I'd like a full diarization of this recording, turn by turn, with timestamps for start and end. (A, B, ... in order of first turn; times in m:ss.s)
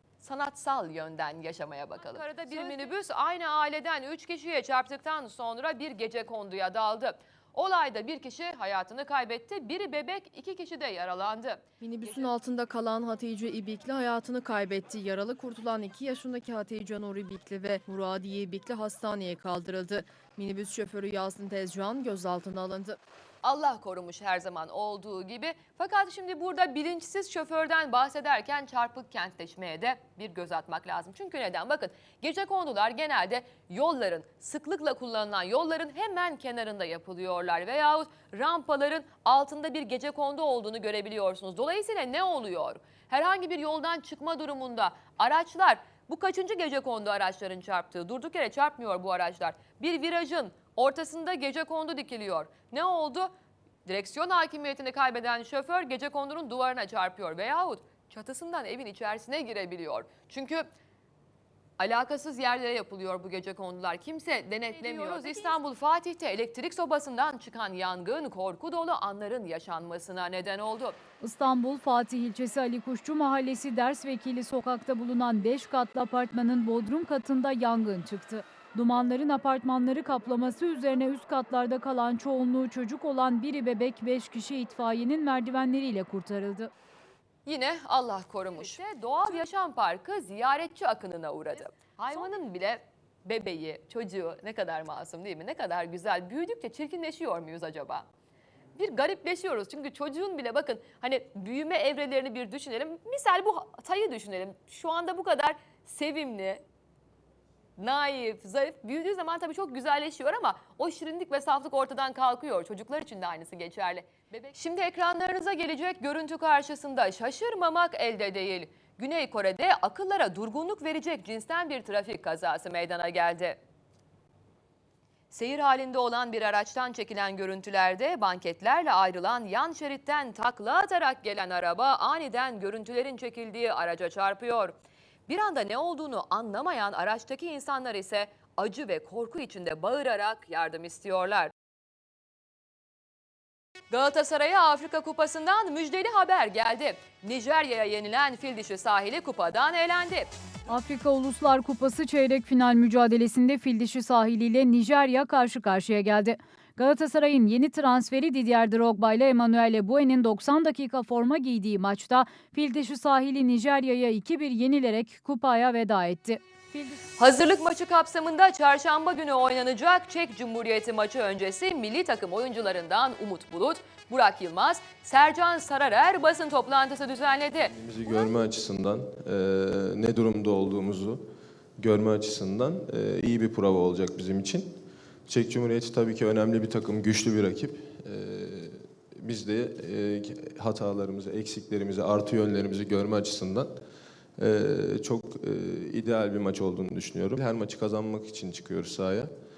0:00.2-0:11.6 A
0:11.8-0:23.0 B
0:23.4-0:53.3 A
0:53.8-1:00.6 A
1:01.8-1:11.0 A
1:04.9-1:05.3 C
1:11.2-1:26.7 C
1:27.4-1:38.1 A
1:38.8-1:46.6 A
1:47.8-2:03.6 A
2:05.3-2:21.5 A
2:23.9-2:30.3 A
2:30.7-2:47.0 C
2:47.2-2:57.7 A
2:57.6-3:01.2 D
3:01.8-3:13.7 D
3:14.4-3:19.3 D